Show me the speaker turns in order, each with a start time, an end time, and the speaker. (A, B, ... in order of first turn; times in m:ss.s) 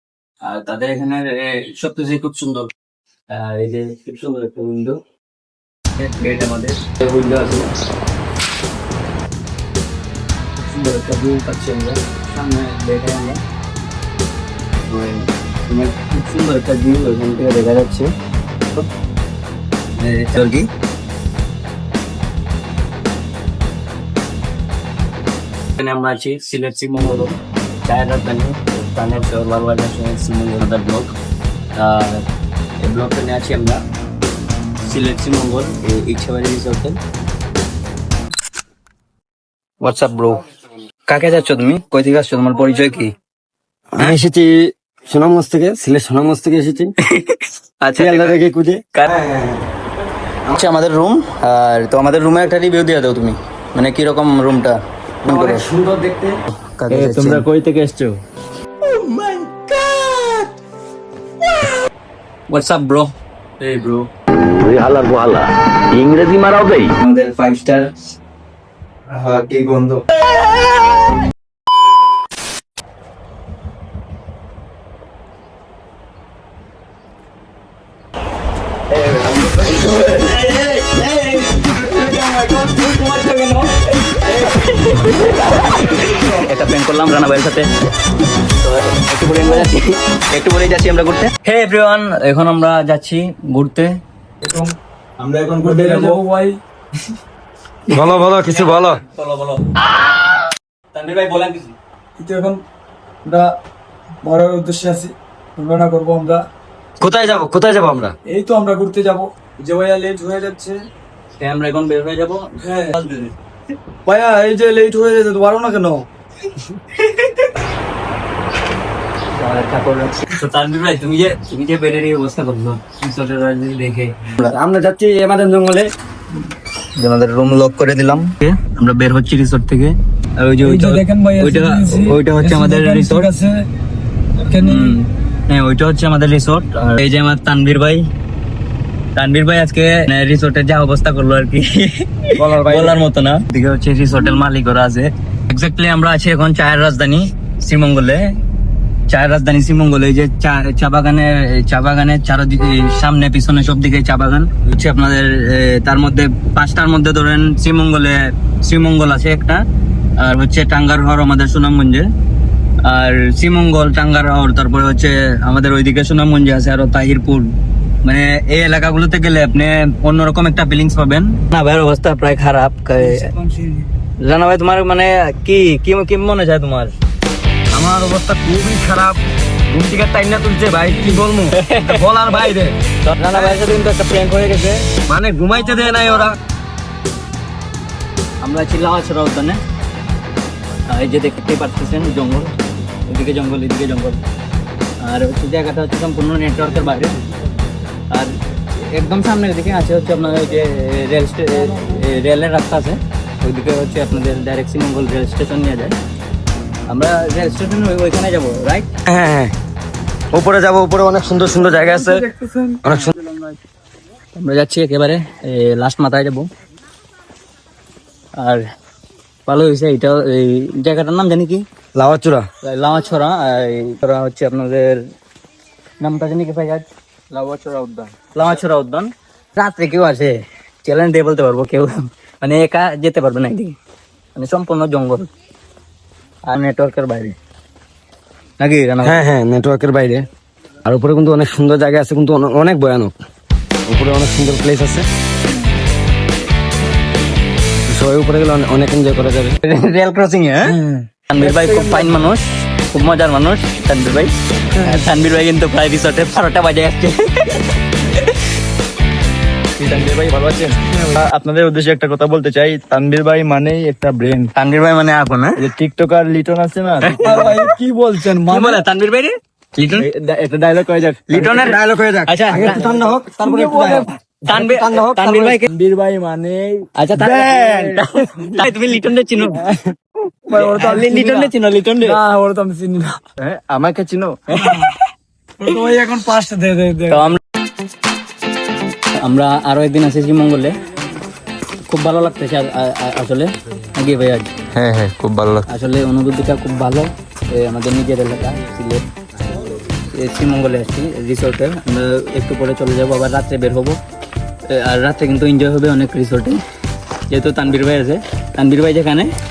0:00.4-0:02.7 A
0:03.3-0:05.0 A
0:06.0-0:07.7 A
0:10.6-0:13.4 A
0:14.9-0:18.1 A
0:20.0-0:20.7 A
0:25.8-0:31.1 A
0:31.7-0:32.2 A
0:32.8-0:33.8 A
0:34.8-0:37.0 A
0:39.8-0:40.4 A
0:41.1-0:43.1 A
0:43.9-0:46.9 B
0:47.0-0:48.4 A
0:48.0-0:49.6 B
0:50.5-0:55.6 A
0:55.2-0:56.4 B
0:56.6-0:57.5 A
0:57.3-0:58.2 C
0:59.1-1:00.3 B
1:02.5-1:04.0 A
1:04.6-1:06.9 D
1:07.0-1:07.9 A
1:09.1-1:10.0 C
1:19.6-1:20.6 A
1:20.4-1:23.9 E
1:23.9-1:27.7 A
1:28.5-1:34.0 A
1:34.4-1:36.2 C
1:35.6-1:36.6 E
1:37.9-1:39.0 B
1:38.4-1:39.6 A
1:40.9-1:41.8 A
1:42.2-1:42.6 E
1:43.2-1:43.5 E
1:44.2-1:46.4 E
1:47.0-1:48.1 B
1:48.3-1:50.8 E
1:51.4-1:53.3 A
1:52.6-1:52.9 E
1:54.0-1:56.0 E
1:57.0-1:57.3 A
1:59.3-2:04.5 A
2:04.4-2:05.9 B
2:07.0-2:13.3 A
2:10.6-2:13.7 E
2:14.4-2:15.0 E
2:14.6-2:18.1 A
2:19.2-2:28.4 A
2:22.3-2:23.0 B
2:29.1-2:39.6 A
2:40.2-2:42.1 A
2:42.8-2:53.3 A
2:53.0-2:53.9 E
2:54.2-2:56.9 A
2:57.7-3:02.8 B
3:00.9-3:01.2 E
3:01.6-3:02.4 A
3:03.0-3:04.8 A
3:05.0-3:06.4 B
3:08.4-3:09.6 A
3:10.9-3:14.2 A
3:15.0-3:17.2 A
3:18.1-3:26.0 A
3:26.9-3:28.9 A
3:29.0-3:29.5 B
3:30.3-3:32.3 B
3:31.7-3:33.6 E
3:32.8-3:33.1 B
3:34.4-3:36.5 A
3:38.4-3:38.6 A
3:39.4-3:41.6 A
3:41.9-3:42.5 B
3:42.6-3:45.0 A
3:46.0-3:47.6 A
3:47.3-3:47.7 C
3:48.3-3:53.8 A
3:54.4-3:55.3 A
3:56.5-3:57.4 A
3:58.6-3:59.2 A
3:59.0-4:00.2 B
4:00.8-4:03.1 B
4:03.8-4:05.1 B
4:07.7-4:09.6 B
4:09.6-4:10.8 A
4:10.7-4:12.2 E
4:11.3-4:18.3 A
4:19.8-4:24.5 C
4:24.5-4:25.6 A
4:25.6-4:27.3 C
4:27.0-4:27.7 A
4:27.2-4:28.8 E
4:28.4-4:30.0 A
4:30.0-4:31.6 C
4:31.3-4:32.8 A
4:31.4-4:35.6 B
4:33.4-4:34.1 E
4:33.8-4:35.7 A
4:35.6-4:36.9 E
4:37.0-4:39.6 A
4:37.2-4:38.0 B
4:40.5-4:41.5 E
4:40.5-4:42.2 A
4:42.0-4:43.3 E
4:43.4-4:44.4 C
4:44.5-4:45.0 A
4:44.6-4:44.9 E
4:45.6-4:47.4 E
4:47.1-4:47.4 A
4:49.2-4:50.8 A
4:51.9-4:54.5 A
4:54.8-4:55.6 C
4:55.7-5:04.0 A
5:04.7-5:06.6 A
5:07.3-5:09.3 A